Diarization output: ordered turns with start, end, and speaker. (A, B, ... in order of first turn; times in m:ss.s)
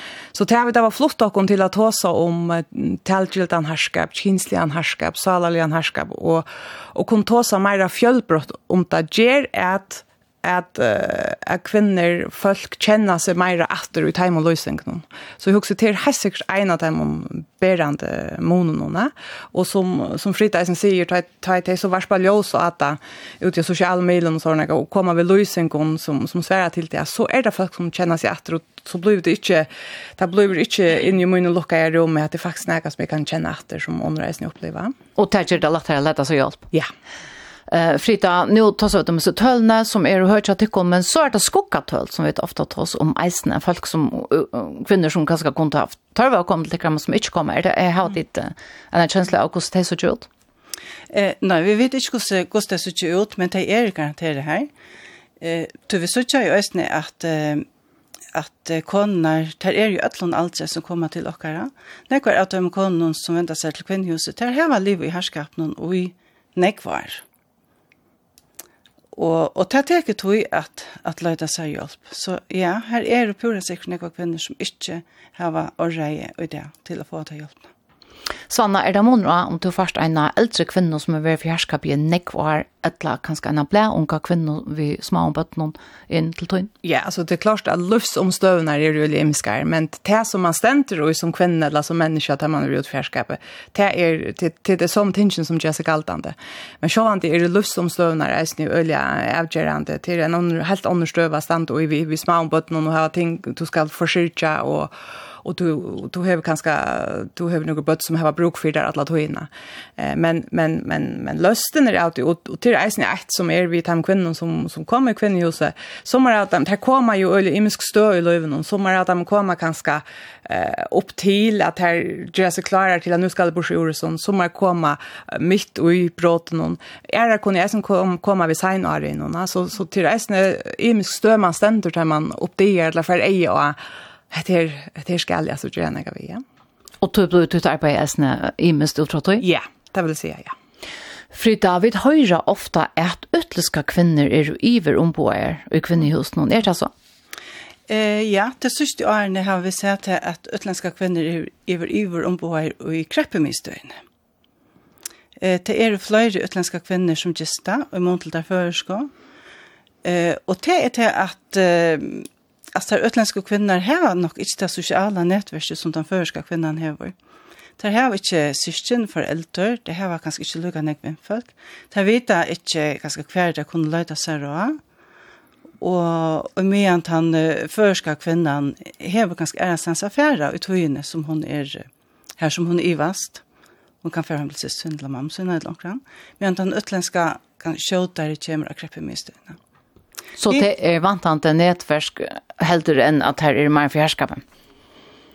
0:00.3-0:34.9 A
0:35.2-0:36.6 B
0:37.7-0:50.3 B
0:51.1-0:54.7 C
0:55.4-0:57.7 C
0:58.3-1:07.2 C
1:09.1-1:17.7 C
1:18.5-1:26.7 B
1:26.8-2:13.8 A
2:14.3-2:16.4 A
2:17.0-2:19.4 B
2:19.4-2:20.5 A
2:21.3-2:26.9 B
2:27.9-2:34.0 C
2:35.4-2:39.1 C
2:40.0-2:47.1 C
2:47.8-2:54.8 C
2:55.8-3:03.4 C
3:04.0-3:09.6 C
3:10.4-3:14.4 B